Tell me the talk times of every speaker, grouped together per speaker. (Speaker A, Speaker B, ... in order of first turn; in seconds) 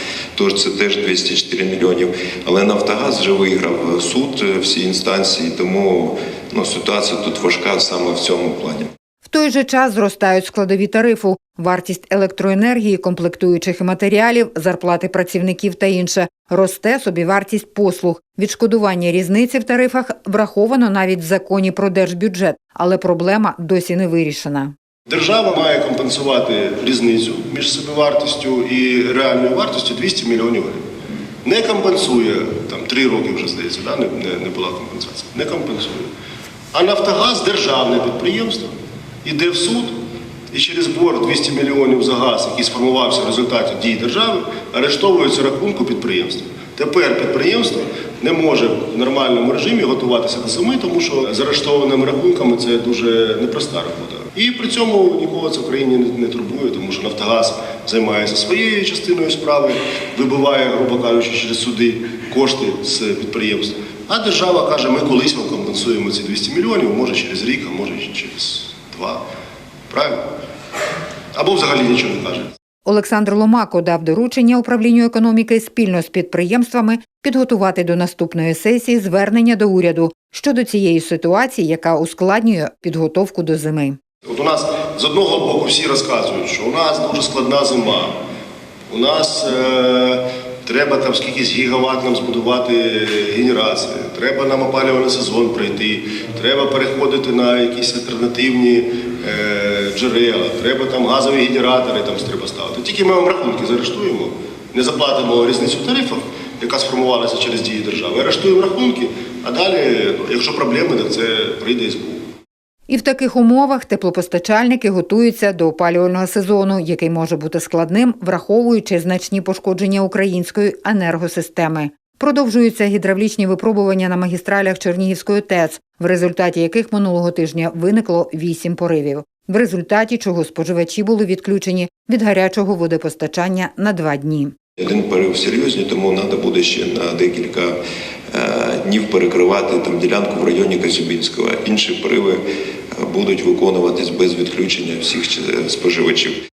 Speaker A: 0.4-8.9, 134.8-137.8, 138.3-142.4, 143.0-146.4
Speaker B: 9.2-24.7, 72.9-84.0, 112.9-134.6
Speaker C: 25.1-30.8, 31.4-36.1, 36.7-38.7, 39.2-40.0, 40.5-69.2, 69.9-70.2, 71.3-72.5, 84.3-88.2, 88.9-112.2